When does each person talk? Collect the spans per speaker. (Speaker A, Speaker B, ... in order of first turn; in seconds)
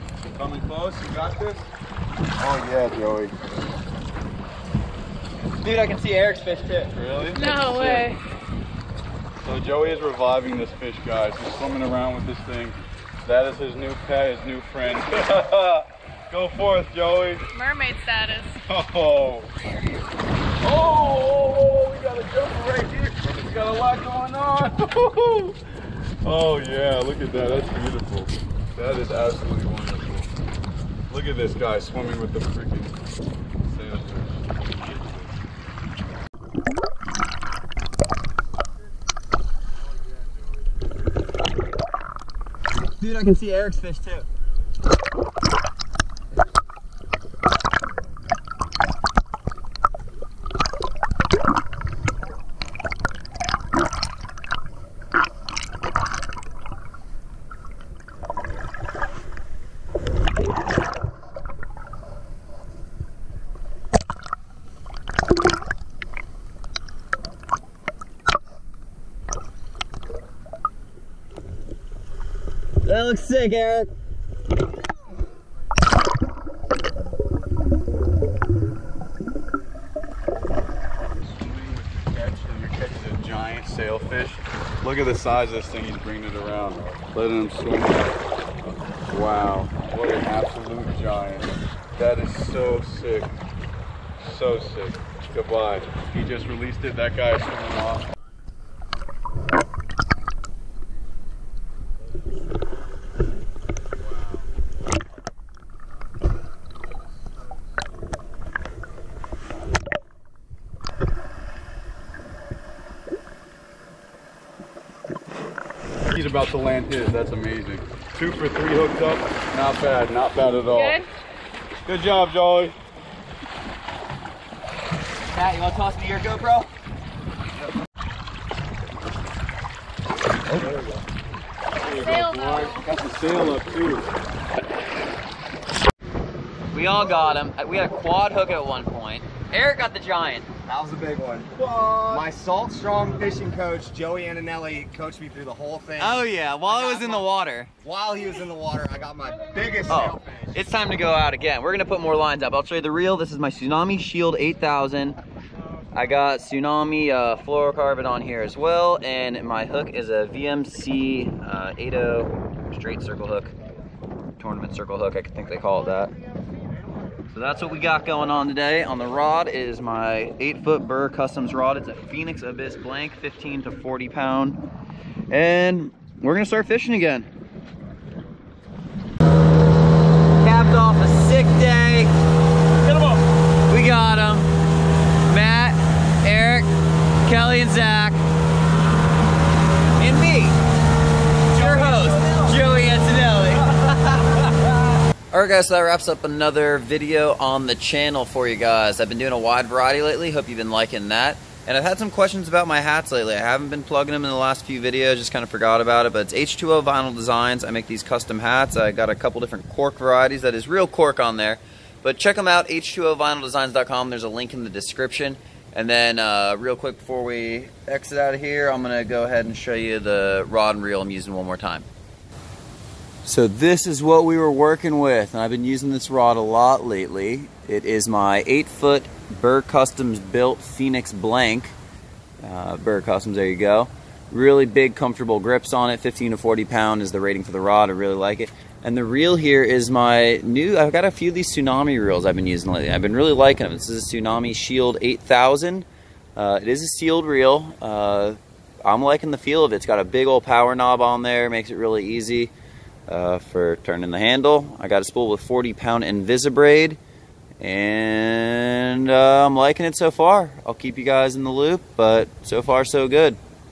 Speaker A: 0.3-1.7, 2.4-3.4, 6.9-8.1, 9.4-17.5, 18.6-19.5, 20.6-25.6, 26.2-30.3, 31.1-33.0, 33.6-35.4, 81.1-88.2, 88.9-93.3, 94.2-98.1, 116.1-121.0, 121.8-122.8, 130.5-130.9, 131.8-134.1, 141.5-142.3, 182.9-183.1, 191.5-192.5
Speaker B: 5.6-6.9, 43.0-44.2, 72.8-73.9, 125.3-126.7, 136.7-140.5, 146.0-147.7, 149.9-155.2, 155.9-163.5, 164.4-166.1, 167.3-174.6, 175.3-177.3, 180.4-182.1, 183.7-184.5, 185.2-186.7, 187.2-188.2, 190.0-190.6, 191.5-194.5, 195.3-221.9, 223.2-231.7, 232.4-252.5, 253.1-257.0, 257.6-263.4
Speaker C: 7.3-8.2, 17.5-18.6, 120.7-121.1, 131.8-132.8
Speaker D: 140.7-147.3, 147.8-150.7